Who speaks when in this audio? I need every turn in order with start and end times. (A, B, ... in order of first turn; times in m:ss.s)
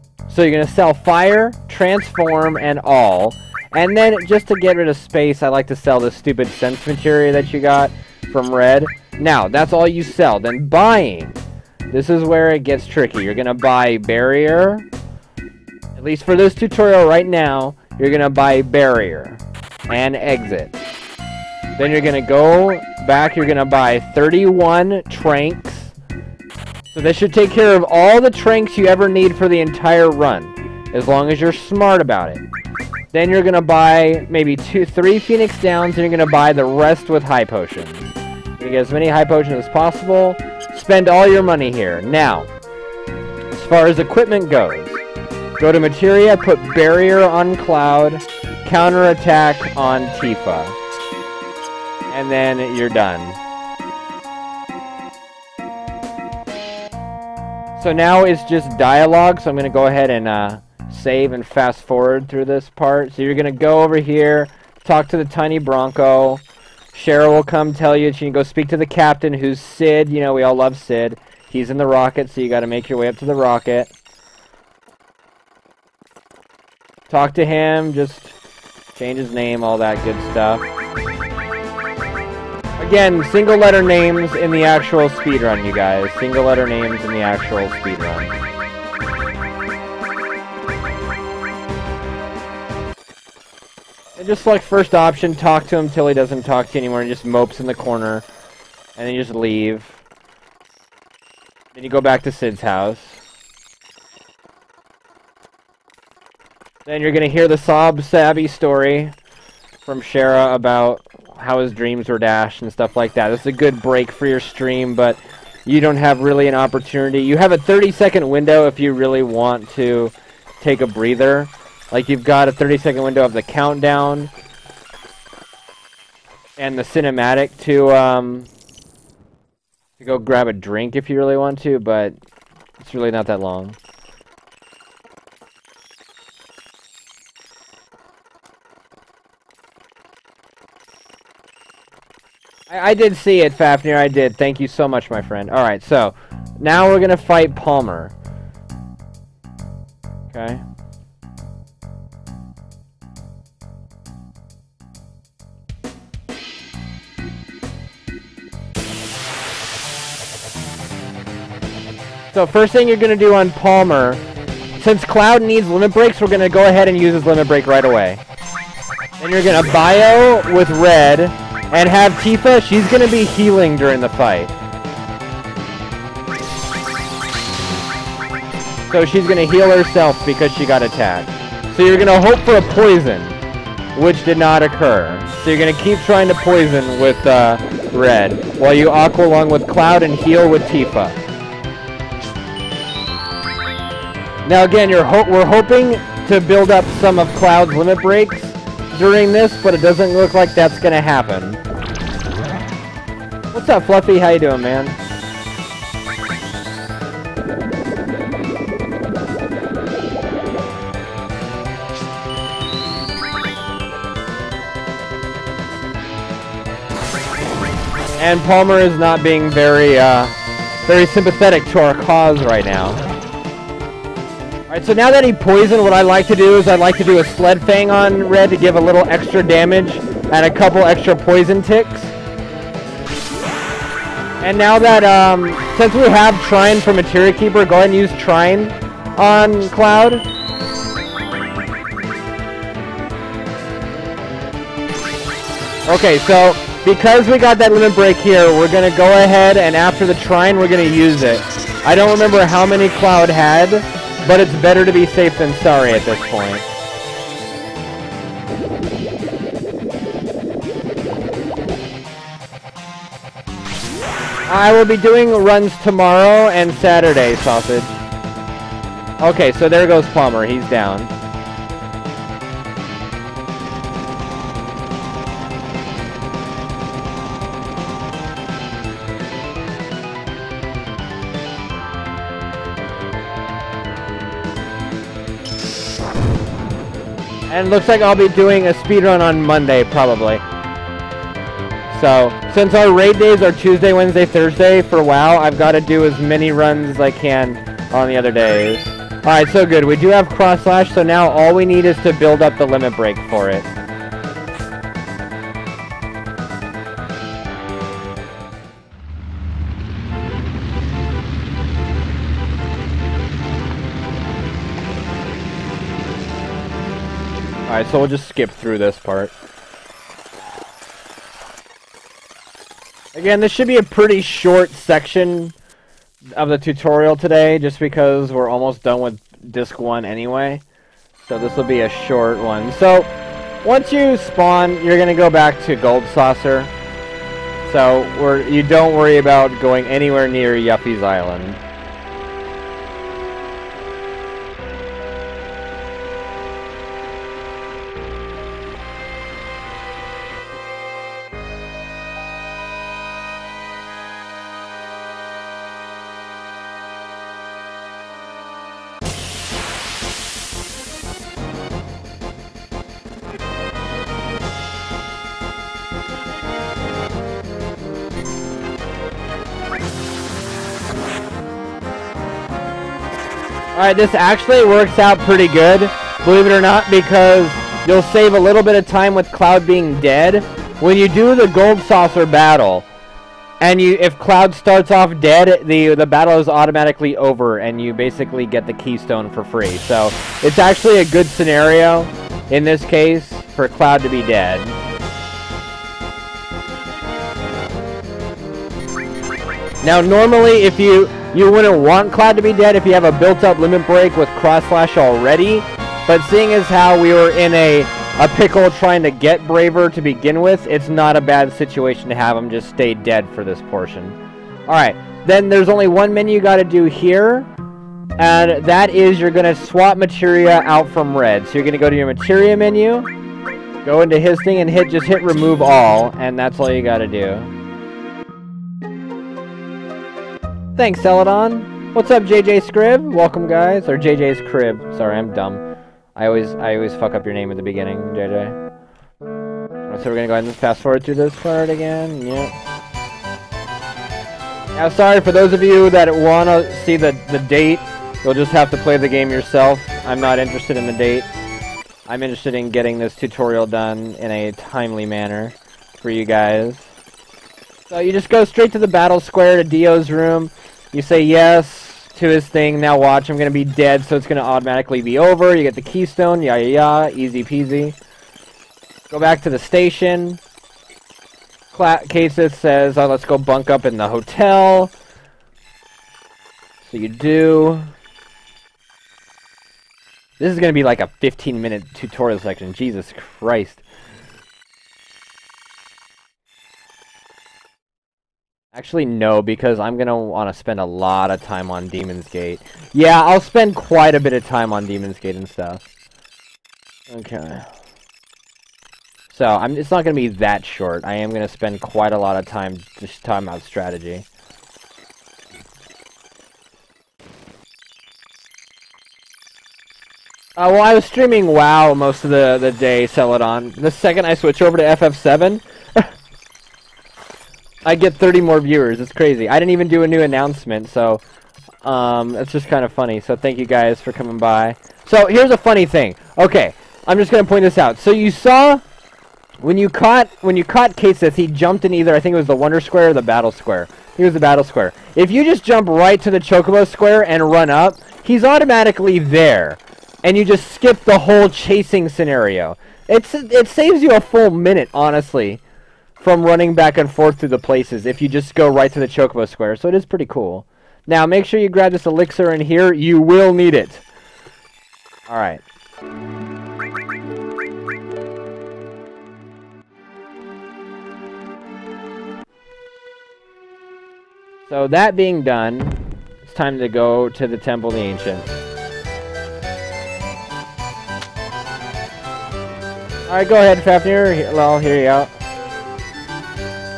0:00.3-0:11.4 A
0:11.9-0:14.9 A
0:16.0-0:20.8 A
0:21.8-0:25.9 A
0:26.9-0:32.4 A
0:33.1-0:42.5 A
0:43.5-0:45.0 A
0:45.6-0:50.8 A
0:52.1-0:53.4 A
0:57.8-1:13.9 A
1:17.1-1:18.4 A
1:19.0-1:20.7 A
1:22.8-1:28.4 A
1:34.2-1:38.3 A
1:39.0-1:40.0 A
1:41.8-1:43.2 A
1:46.9-1:49.2 A
1:49.8-2:04.3 A
2:06.6-2:08.5 A
2:10.0-2:12.2 A
2:12.8-2:13.8 A
2:22.7-2:28.1 A
2:30.3-2:30.6 A
2:42.3-2:44.2 A
2:44.8-2:48.2 A
2:49.2-2:54.5 A
2:58.9-3:03.4 A
3:03.9-3:11.2 A
3:14.4-3:21.6 A
3:23.5-3:25.0 A
3:38.2-3:40.4 A
3:40.9-3:43.0 A
3:44.7-3:52.2 A
3:54.4-4:00.2 A
4:05.9-4:16.7 A
4:24.5-4:28.0 A
4:29.2-4:31.1 A
4:47.5-4:50.4 A
4:51.9-5:03.7 A
5:17.7-5:19.3 A
5:23.2-5:25.6 A
5:26.4-5:30.6 A
5:31.2-5:33.1 A
5:33.6-5:36.7 A
5:37.7-5:41.6 A
6:13.7-6:22.9 A
6:23.6-6:34.8 A
6:39.8-6:57.5 A
6:58.2-7:03.1 A
7:03.8-7:07.5 A
7:10.8-7:15.6 A
7:16.2-7:18.6 A
7:19.9-7:22.5 A
7:24.8-7:31.5 A
7:32.1-7:36.9 A
7:37.9-7:48.0 A
7:49.1-7:50.4 A
7:51.7-7:54.9 A
7:56.8-7:57.9 A
8:00.4-8:03.8 A
8:08.7-8:15.8 A
8:17.1-8:17.7 A
8:19.3-8:24.3 A
8:30.6-8:36.1 A
8:37.8-8:41.2 A
8:41.8-8:48.8 A
8:49.6-9:05.6 A
9:06.2-9:14.0 A
9:15.3-9:15.6 A
9:24.7-9:28.5 A
9:33.3-9:35.3 A